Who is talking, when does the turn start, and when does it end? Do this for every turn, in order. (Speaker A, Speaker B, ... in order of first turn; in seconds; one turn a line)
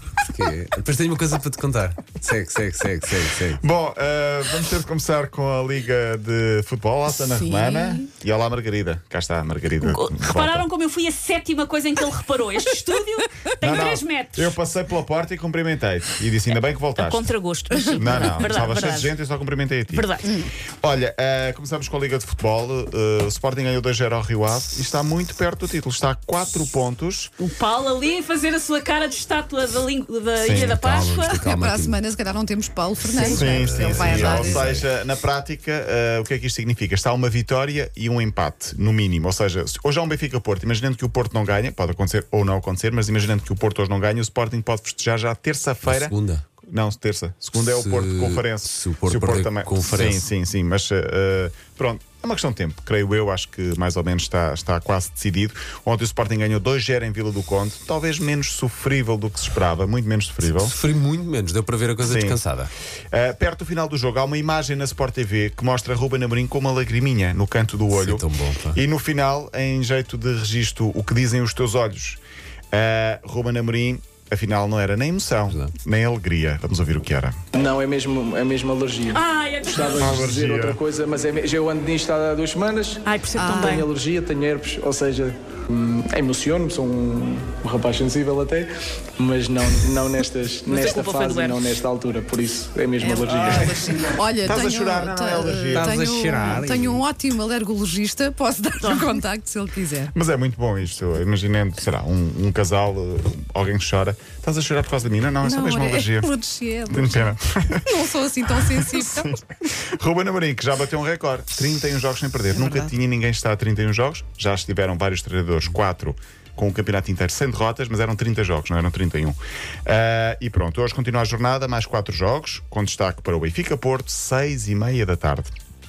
Speaker A: 0.2-3.6
Speaker B: 3.6-10.7
Speaker C: 7.1-8.0
Speaker D: 9.8-14.6
Speaker B: 13.6-17.3
Speaker D: 17.0-19.1
Speaker C: 17.8-18.3
Speaker B: 18.0-27.3
Speaker D: 19.9-20.4
Speaker D: 27.4-31.4
Speaker B: 30.4-30.8
Speaker A: 30.7-32.0
Speaker C: 31.3-34.7
Speaker A: 33.1-34.9
Speaker B: 33.2-60.8
Speaker A: 45.8-46.5
Speaker A: 47.6-50.3
Speaker A: 60.4-62.7
Speaker B: 62.0-62.4
Speaker B: 63.1-72.2
Speaker A: 67.9-68.8
Speaker B: 72.7-77.4
Speaker A: 75.5-75.7
Speaker E: 77.5-93.8
Speaker D: 79.1-80.2
Speaker B: 80.0-80.8
Speaker D: 83.0-83.9
Speaker C: 83.3-83.8
Speaker D: 90.7-91.7
Speaker C: 93.0-100.1
Speaker B: 93.4-96.6
Speaker A: 95.7-97.0
Speaker D: 98.8-99.2
Speaker B: 100.1-106.3
Speaker C: 105.4-109.3
Speaker B: 106.9-125.5
Speaker C: 112.5-112.9